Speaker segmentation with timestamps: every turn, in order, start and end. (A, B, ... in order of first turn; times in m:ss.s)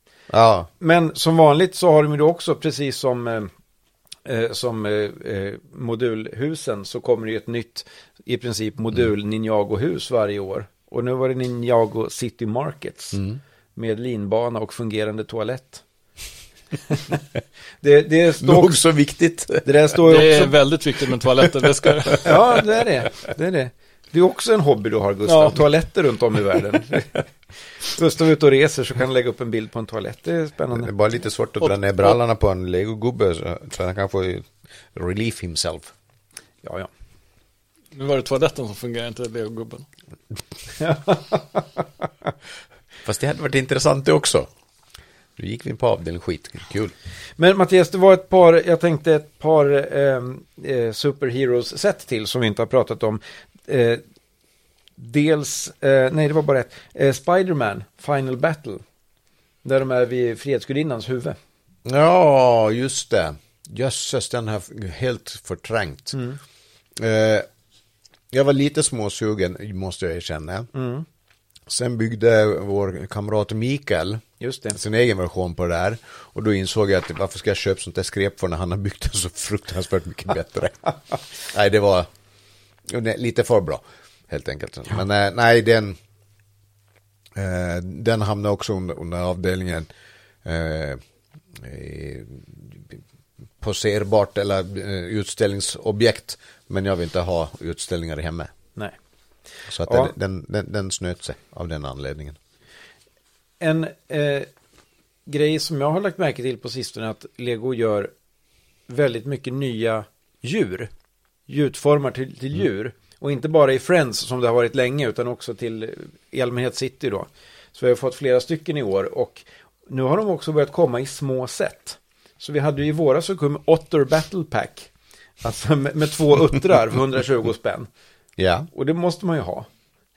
0:00.3-0:00.7 A
0:00.8-0:03.5 B
0:04.2-0:13.2 B
0:13.8-0:15.8 B
0:16.9-0:17.2 B
0:17.8-0:18.8 B
0:18.4-0:19.9 A
0:19.6-0:20.5 B
0:20.0-0:22.6 C
0:21.8-0:22.3 A
0:22.2-0:27.1 B
0:25.2-0:25.6 C
0:27.8-0:30.9 B
0:30.7-0:35.9 A
0:36.6-0:36.9 B
0:37.9-0:39.8 C
0:40.8-0:42.1 B
0:43.0-0:44.5 A
0:45.4-0:46.9 A
0:47.4-0:54.0 B
0:55.0-0:58.8 B
0:59.6-1:01.4 B
1:01.8-1:06.2 A
1:06.1-1:06.4 B
1:07.0-1:07.5 A
1:08.3-1:10.7 A
1:10.7-1:11.0 B
1:11.7-1:14.2 A
1:14.4-1:14.8 B
1:14.7-1:22.1 A
1:22.9-1:26.0 A
1:27.3-1:29.9 A
1:30.4-1:31.0 A
1:31.5-1:33.0 A
1:33.6-1:38.5 A
1:39.7-1:42.4 A
1:39.8-1:40.1 B
1:43.6-1:44.5 B
1:45.3-1:48.1 B
1:48.9-1:50.9 B
1:51.5-2:04.9 B
2:05.4-2:07.9 B
2:08.4-2:08.7 A
2:08.7-2:09.7 B